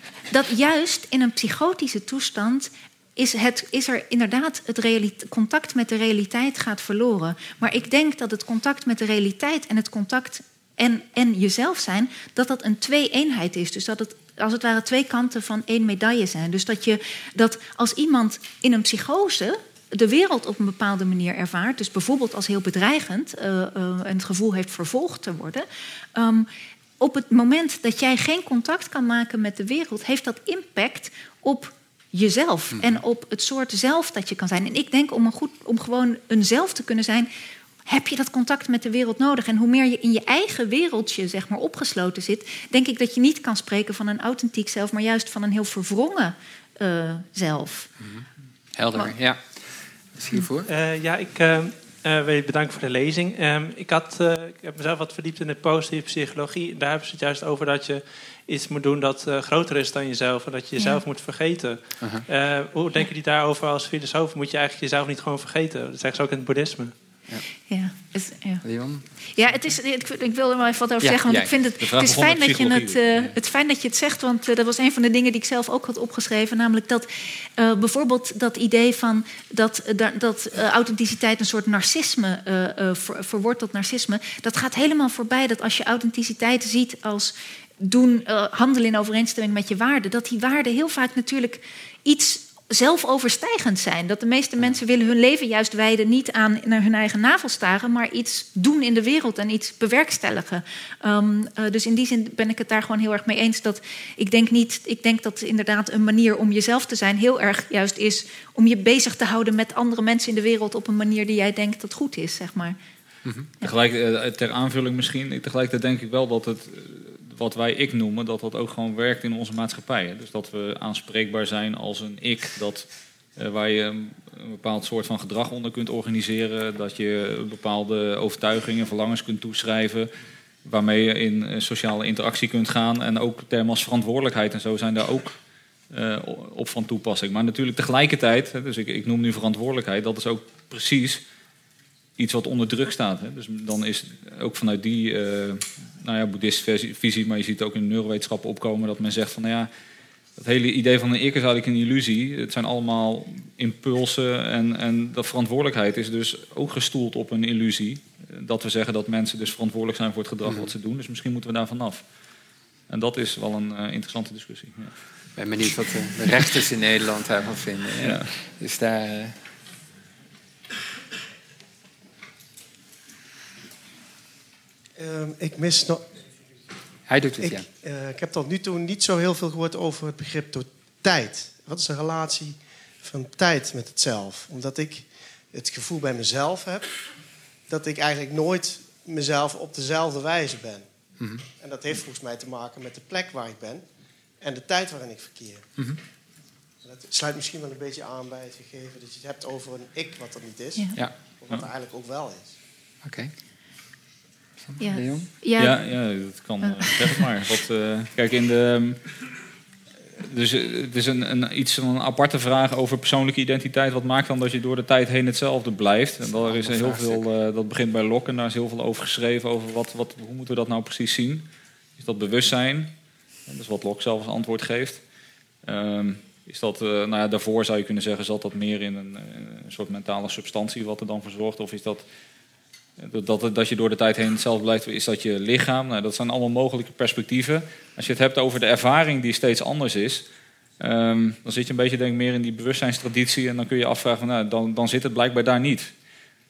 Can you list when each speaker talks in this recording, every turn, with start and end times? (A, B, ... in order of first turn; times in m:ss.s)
0:00.3-0:26.5 A
0:27.0-0:37.3 A
0:32.7-0:33.0 B
0:37.9-0:47.9 A
0:48.8-0:49.5 B
0:50.2-0:50.7 B
0:50.7-1:06.9 C
1:02.0-1:02.2 B
1:07.7-1:08.6 A
1:08.6-1:09.0 B
1:09.3-1:52.8 A
1:11.0-1:11.5 B
1:11.8-1:13.3 D
1:53.2-1:53.5 B
1:53.6-2:10.1 D
2:10.6-2:15.4 D
2:15.9-2:21.2 D
2:22.2-2:29.7 D
2:30.4-2:42.0 D
2:40.4-2:40.7 B
2:42.9-2:44.9 D
2:45.4-2:49.4 B
2:48.0-2:48.3 D
2:55.0-2:56.0 E
2:57.1-2:57.7 B
2:57.4-3:07.0 E
3:07.7-3:11.0 E
3:11.2-3:11.4 B
3:11.5-3:13.8 E
3:14.4-3:15.7 E
3:16.8-3:22.6 E
3:23.0-3:23.3 B
3:24.7-3:25.3 B
3:24.8-3:25.8 A
3:25.6-3:29.0 D
3:26.6-3:27.0 A
3:30.2-3:41.5 D
3:36.3-3:37.3 B
3:42.0-3:42.9 D
3:43.5-3:45.0 D
3:45.6-3:52.0 D
3:53.0-4:00.3 D
4:00.8-4:05.9 D